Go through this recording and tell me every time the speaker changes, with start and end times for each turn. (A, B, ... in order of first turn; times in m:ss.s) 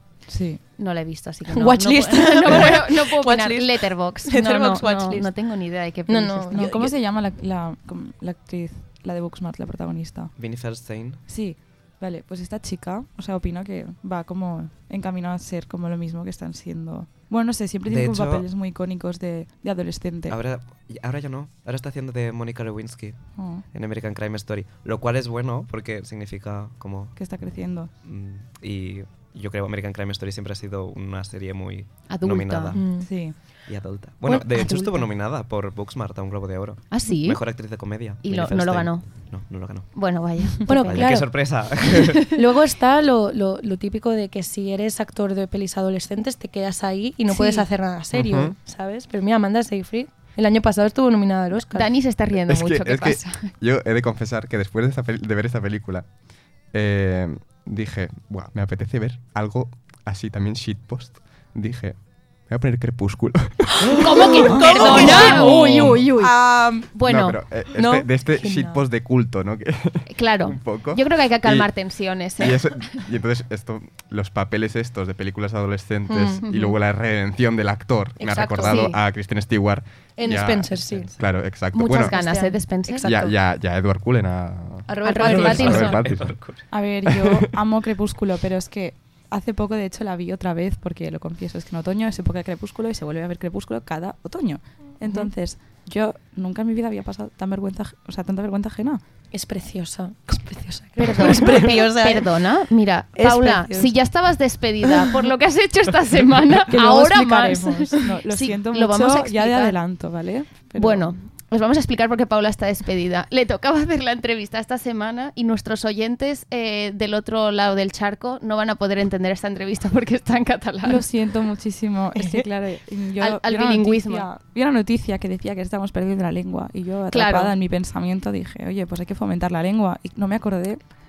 0:00.3-0:00.6 A
0:00.8-0:06.7 B
0:01.5-0:05.4 C
0:06.1-0:06.9 C
0:06.5-0:10.3 A
0:10.4-0:11.2 D
0:11.3-0:20.4 A
0:17.9-0:18.4 D
0:20.3-0:27.4 D
0:23.4-0:23.7 A
0:27.2-0:27.9 A
0:28.0-0:42.2 D
0:32.1-0:32.8 B
0:32.8-0:33.1 C
0:33.0-0:33.4 A
0:34.2-0:35.0 C
0:36.9-0:41.3 B
0:40.7-0:41.8 C
0:42.4-0:51.9 C
0:47.3-0:47.7 B
0:48.1-0:48.6 E
0:51.6-0:53.5 B
0:52.3-0:56.1 E
0:56.7-1:06.1 E
1:03.9-1:06.9 C
1:04.0-1:07.4 B
1:07.0-1:11.7 E
1:07.8-1:08.8 C
1:10.1-1:12.8 B
1:12.4-1:27.5 E
1:16.1-1:16.4 C
1:16.4-1:16.8 B
1:18.2-1:18.9 C
1:18.6-1:19.0 B
1:20.2-1:21.1 C
1:20.8-1:21.3 D
1:21.7-1:23.1 B
1:21.9-1:23.3 C
1:24.9-1:26.0 C
1:25.0-1:26.0 B
1:25.2-1:26.7 D
1:26.7-1:39.0 A
1:35.0-1:35.3 C
1:39.3-1:42.4 C
1:41.0-1:49.8 B
1:43.2-1:44.0 C
1:46.7-1:51.1 A
1:50.7-2:01.1 B
2:00.8-2:10.8 A
2:03.2-2:04.3 B
2:07.1-2:07.5 B